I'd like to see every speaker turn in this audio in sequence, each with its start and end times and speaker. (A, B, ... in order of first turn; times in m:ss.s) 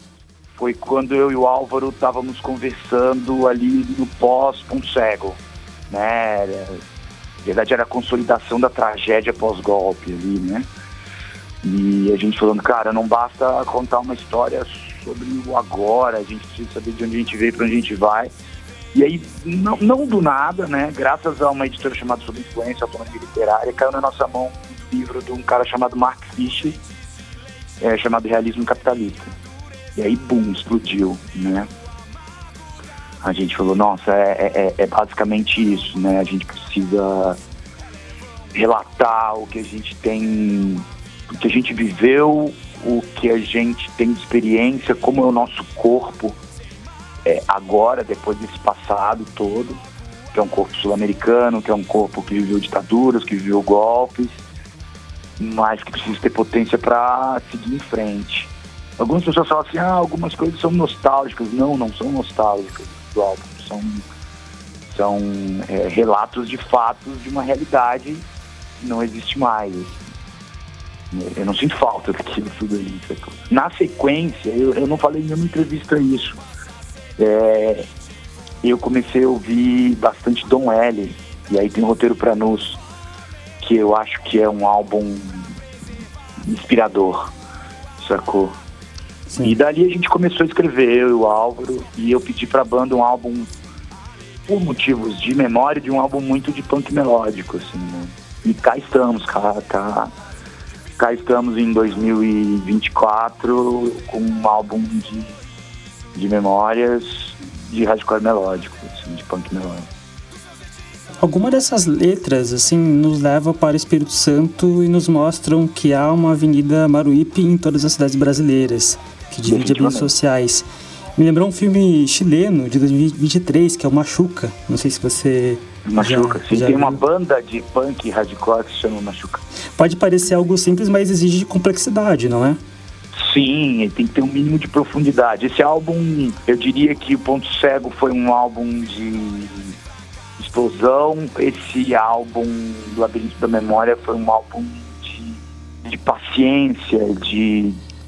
0:00.6-0:06.8 A
0:07.4-0:10.7 A
0:11.6-0:18.3 A
0:18.9-0:26.8 A
0:27.8-0:29.3 A
0:30.0-0:31.7 A
0:33.2-0:37.4 A
0:38.5-0:46.4 A
0:47.2-0:49.8 A
0:50.3-0:54.4 A
0:55.4-1:04.0 A
1:04.9-1:08.2 A
1:08.8-1:09.9 A
1:11.1-1:16.4 A
1:17.2-1:17.9 A
1:18.6-1:22.8 A
1:23.6-1:25.5 A
1:26.4-1:27.3 A
1:28.0-1:28.6 A
1:29.3-1:29.6 B
1:29.4-1:33.5 A
1:34.5-1:40.1 A
1:41.0-1:45.4 A
1:46.2-1:49.9 A
1:51.2-2:07.0 B
1:59.5-2:00.1 A
2:05.9-2:09.4 A
2:09.8-2:12.6 B
2:13.1-2:19.7 A
2:20.4-2:27.8 A